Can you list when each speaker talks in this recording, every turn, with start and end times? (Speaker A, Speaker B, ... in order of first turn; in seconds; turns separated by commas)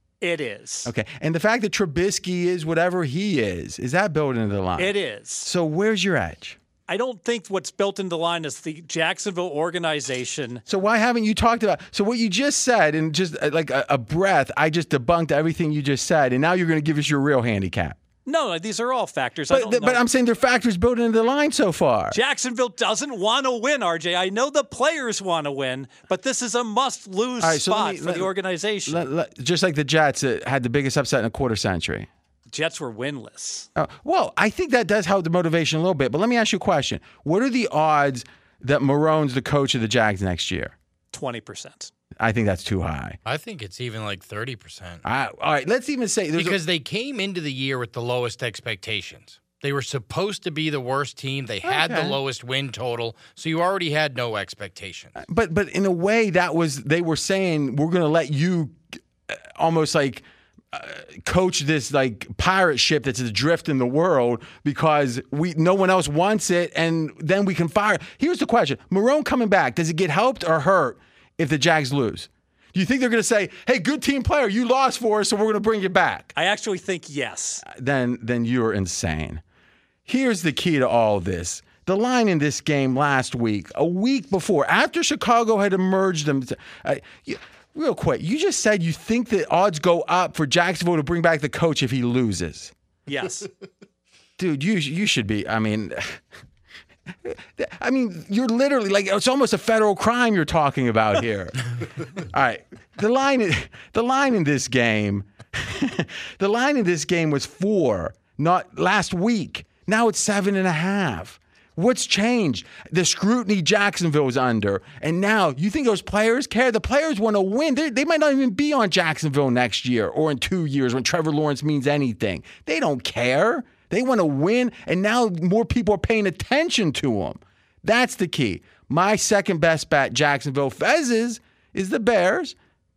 Speaker A: 0.2-0.9, Speaker B: 0.8-4.9, Speaker A: 4.8-5.5, Speaker B: 5.4-6.6, Speaker A: 6.9-10.6, Speaker B: 10.7-18.0, Speaker A: 18.2-20.0, Speaker B: 19.5-22.2, Speaker A: 22.1-29.1, Speaker B: 27.4-28.3, Speaker B: 28.9-32.1, Speaker A: 32.5-33.7, Speaker B: 33.8-40.7, Speaker A: 41.1-41.9, Speaker B: 42.2-43.2, Speaker C: 43.2-45.0, Speaker B: 45.0-46.6, Speaker C: 46.4-55.1, Speaker B: 51.6-52.2, Speaker B: 55.2-76.3, Speaker A: 76.3-77.6, Speaker B: 77.6-79.4, Speaker B: 80.0-92.7, Speaker A: 93.1-93.5, Speaker B: 94.4-96.2, Speaker B: 97.2-132.5